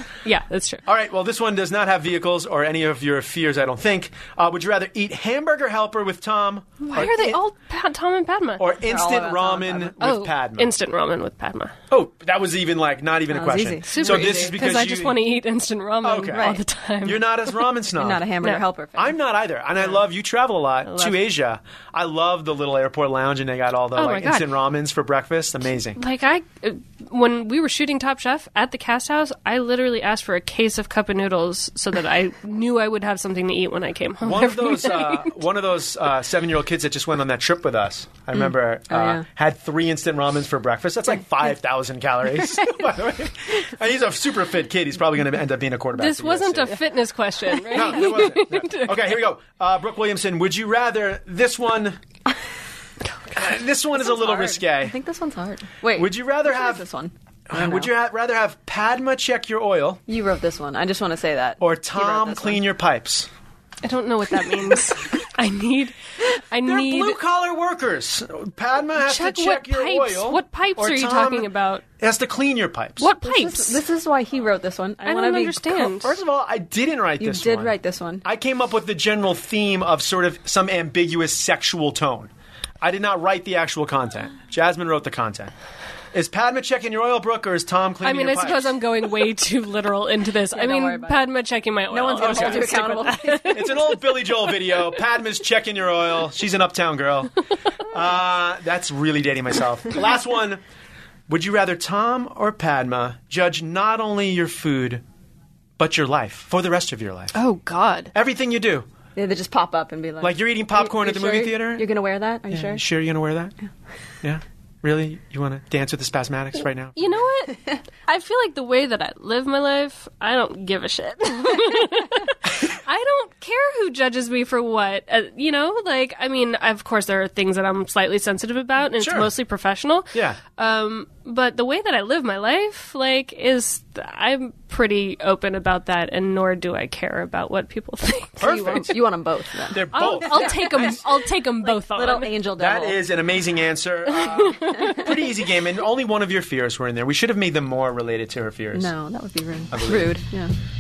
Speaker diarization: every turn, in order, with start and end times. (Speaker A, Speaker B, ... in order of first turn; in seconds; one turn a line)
Speaker A: 0.2-0.8
Speaker B: 0.8-7.4
Speaker A: 6.9-8.7
Speaker B: 8.6-10.7
Speaker C: 8.8-10.0
Speaker A: 10.0-11.8
Speaker B: 11.9-15.2
Speaker C: 13.3-14.6
Speaker A: 13.9-17.7
Speaker B: 16.0-18.3
Speaker C: 16.3-16.6
Speaker C: 17.9-19.2
Speaker B: 18.9-26.0
Speaker A: 20.8-21.2
Speaker A: 23.9-24.5
Speaker A: 25.9-35.4
Speaker B: 34.2-46.8
Speaker C: 38.9-39.2
Speaker A: 46.0-49.2
Speaker B: 47.7-52.0
Speaker B: 53.4-55.0
Speaker C: 54.0-57.9
Speaker B: 55.9-56.9
Speaker B: 57.5-60.0
Speaker C: 60.1-62.6
Speaker B: 61.6-63.3
Speaker A: 63.8-67.2
Speaker B: 66.6-73.1
Speaker A: 69.0-71.8
Speaker A: 73.0-73.8
Speaker C: 73.2-76.0
Speaker A: 75.0-76.1
Speaker B: 76.0-82.3
Speaker C: 77.2-78.2
Speaker B: 82.8-85.5
Speaker B: 86.1-88.8
Speaker A: 88.0-94.4
Speaker C: 90.5-91.3
Speaker C: 91.9-93.7
Speaker B: 92.2-92.7
Speaker B: 93.5-97.4
Speaker B: 97.9-100.6
Speaker B: 101.3-105.0
Speaker B: 105.8-107.3
Speaker A: 107.3-108.1
Speaker B: 108.1-108.9
Speaker C: 109.1-112.8
Speaker B: 110.2-111.9
Speaker B: 112.5-113.5
Speaker B: 114.2-117.2
Speaker A: 117.0-139.0
Speaker B: 129.0-129.3
Speaker B: 130.1-130.4
Speaker B: 138.4-139.0
Speaker C: 138.4-141.1
Speaker B: 139.7-140.8
Speaker A: 139.9-142.4
Speaker C: 141.6-143.1
Speaker B: 142.6-148.9
Speaker A: 144.1-145.1
Speaker C: 148.7-150.5
Speaker B: 149.7-150.2